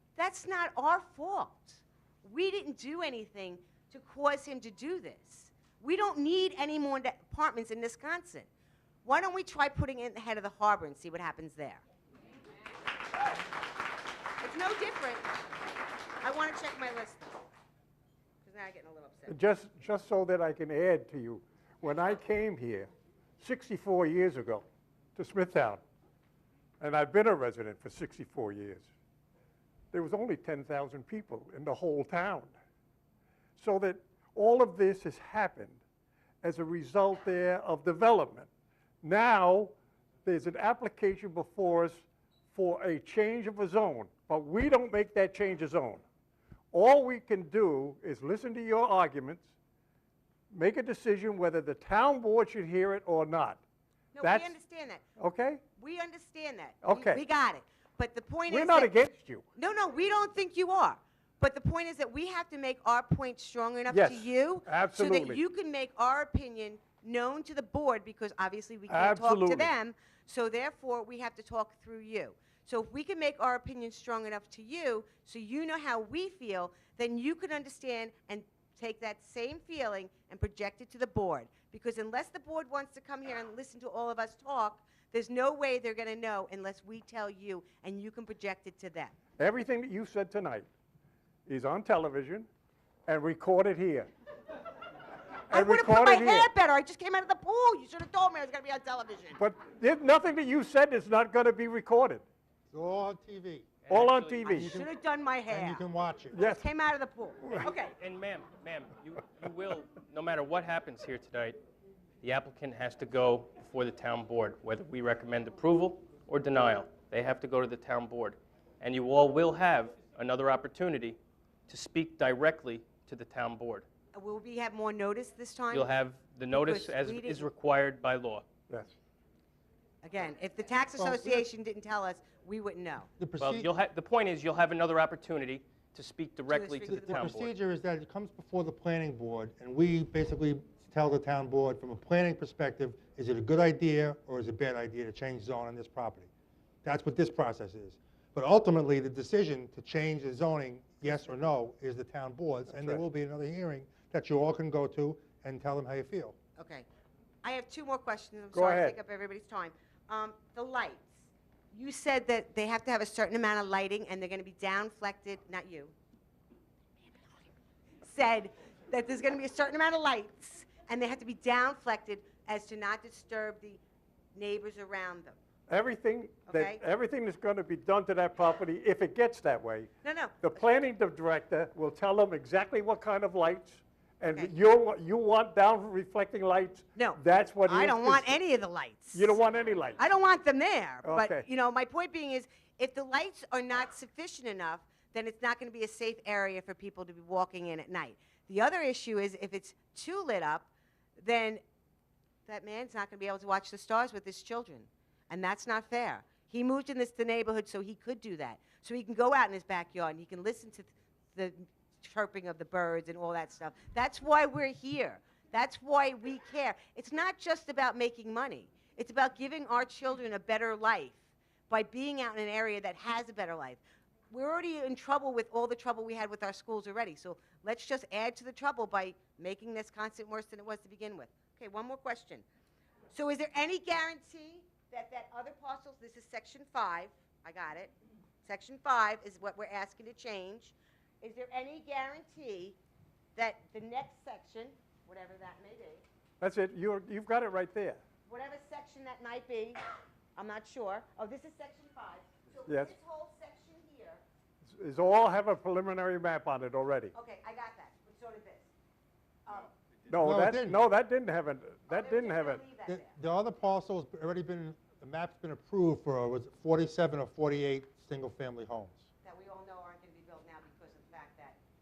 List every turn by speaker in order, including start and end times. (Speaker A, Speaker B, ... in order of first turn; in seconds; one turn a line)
Speaker A: 0.2-8.5
Speaker A: 9.1-11.8
Speaker A: 14.4-15.3
Speaker A: 16.2-17.4
Speaker A: 18.4-19.4
Speaker B: 19.3-24.6
Speaker B: 25.2-25.8
Speaker B: 26.8-28.9
Speaker B: 29.9-32.5
Speaker B: 33.6-35.8
Speaker B: 36.4-38.5
Speaker B: 39.0-46.0
Speaker B: 46.7-49.5
Speaker B: 50.5-53.6
Speaker A: 54.1-55.0
Speaker B: 54.2-54.5
Speaker B: 55.2-55.6
Speaker A: 55.8-58.9
Speaker B: 56.8-57.2
Speaker B: 58.5-59.5
Speaker A: 59.6-89.2
Speaker B: 63.9-65.4
Speaker B: 68.9-69.7
Speaker B: 89.4-90.7
Speaker B: 91.5-92.5
Speaker B: 93.1-94.1
Speaker A: 95.5-99.4
Speaker B: 95.5-96.5
Speaker B: 99.4-102.2
Speaker C: 102.7-103.7
Speaker D: 103.9-104.5
Speaker B: 103.9-104.8
Speaker A: 104.5-105.8
Speaker C: 104.5-104.9
Speaker C: 105.5-106.4
Speaker B: 106.3-106.7
Speaker A: 106.4-107.9
Speaker B: 107.4-107.7
Speaker D: 107.9-111.6
Speaker D: 112.2-123.9
Speaker A: 124.1-125.9
Speaker D: 125.7-128.5
Speaker A: 126.5-127.5
Speaker B: 128.7-128.9
Speaker A: 130.0-133.1
Speaker C: 131.0-131.4
Speaker C: 133.2-133.7
Speaker D: 133.4-137.5
Speaker A: 136.5-137.3
Speaker C: 136.9-146.3
Speaker C: 146.8-156.4
Speaker B: 152.7-153.0
Speaker A: 156.6-156.9
Speaker A: 157.4-165.9
Speaker B: 158.5-159.0
Speaker A: 168.0-173.8
Speaker A: 174.3-175.4
Speaker B: 175.7-179.9
Speaker A: 176.5-176.8
Speaker A: 180.0-180.6
Speaker B: 180.4-188.4
Speaker A: 187.0-189.4
Speaker B: 189.1-190.0
Speaker A: 190.0-201.6
Speaker B: 191.0-191.5
Speaker A: 202.5-232.4
Speaker A: 233.1-237.9
Speaker A: 238.4-242.8
Speaker A: 243.4-246.0
Speaker B: 246.4-248.0
Speaker A: 248.3-249.8
Speaker A: 250.4-254.2
Speaker B: 252.7-252.9
Speaker B: 254.7-257.1
Speaker A: 257.1-258.7
Speaker A: 259.5-259.7
Speaker B: 260.1-262.6
Speaker C: 260.2-260.8
Speaker A: 261.9-263.1
Speaker C: 262.9-269.0
Speaker A: 269.2-271.6